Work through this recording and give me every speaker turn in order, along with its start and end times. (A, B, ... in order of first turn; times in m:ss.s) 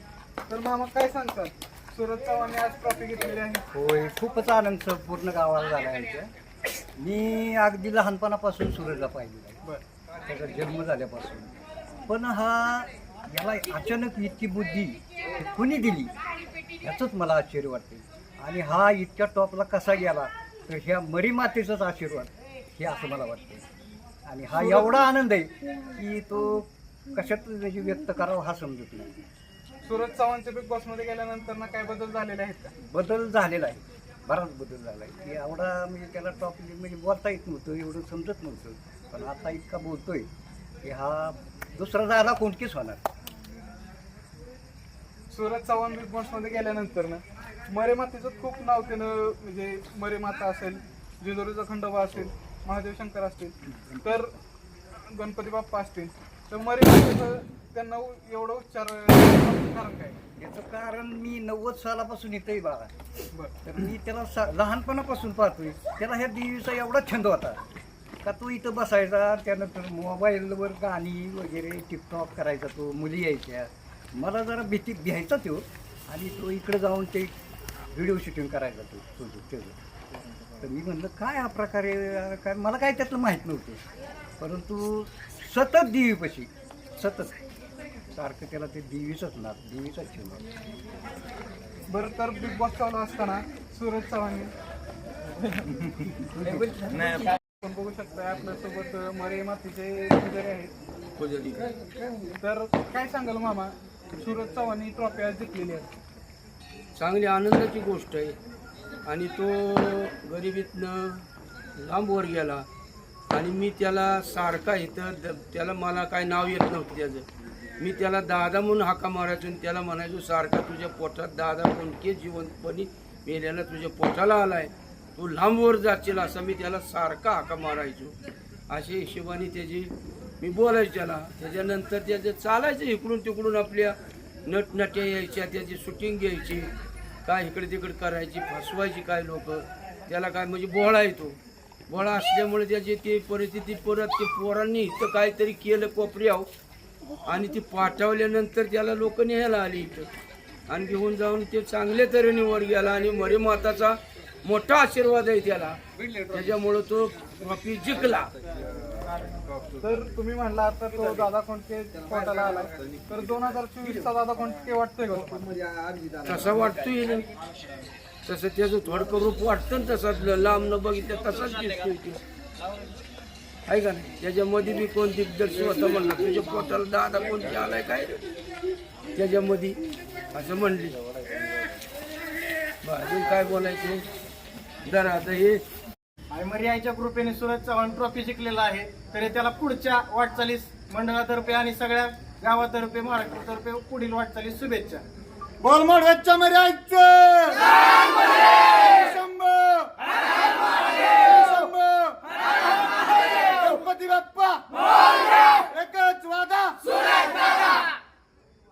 0:00.5-0:03.6 A
0:03.7-0:06.3 B
0:07.0-0:09.6 B
0:10.3-0:11.5 B
0:12.0-0:16.1 B
0:16.8-0:23.6 B
0:24.2-0:29.1 B
0:24.5-0:25.0 A
0:29.8-0:32.7 A
0:32.8-0:40.3 B
0:40.8-0:43.0 B
0:45.3-0:54.3 A
0:55.1-1:00.2 A
1:00.4-1:02.9 B
1:03.6-1:07.6 B
1:08.2-1:17.3 B
1:17.9-1:19.8 B
1:20.6-1:23.8 B
1:24.4-1:27.4 B
1:28.1-1:30.4 B
1:31.9-1:34.5 A
1:36.2-1:37.4 B
1:37.6-1:40.7 A
1:41.2-1:41.7 C
1:42.3-1:45.9 A
1:46.9-1:48.4 C
1:49.0-1:52.7 C
1:53.3-1:57.2 C
1:57.8-2:08.2 C
2:08.7-2:16.7 C
2:17.2-2:21.4 C
2:21.9-2:26.5 C
2:27.2-2:30.1 C
2:30.7-2:38.3 C
2:39.8-2:45.6 A
2:46.2-2:47.2 C
2:48.2-2:52.2 C
2:53.6-2:58.3 C
2:59.1-2:59.8 C
3:00.3-3:01.0 C
3:02.8-3:04.0 C
3:04.8-3:05.6 C
3:06.3-3:15.0 D
3:15.6-3:19.9 D
3:21.1-3:22.1 D
3:23.5-3:24.6 D
3:25.6-3:26.8 D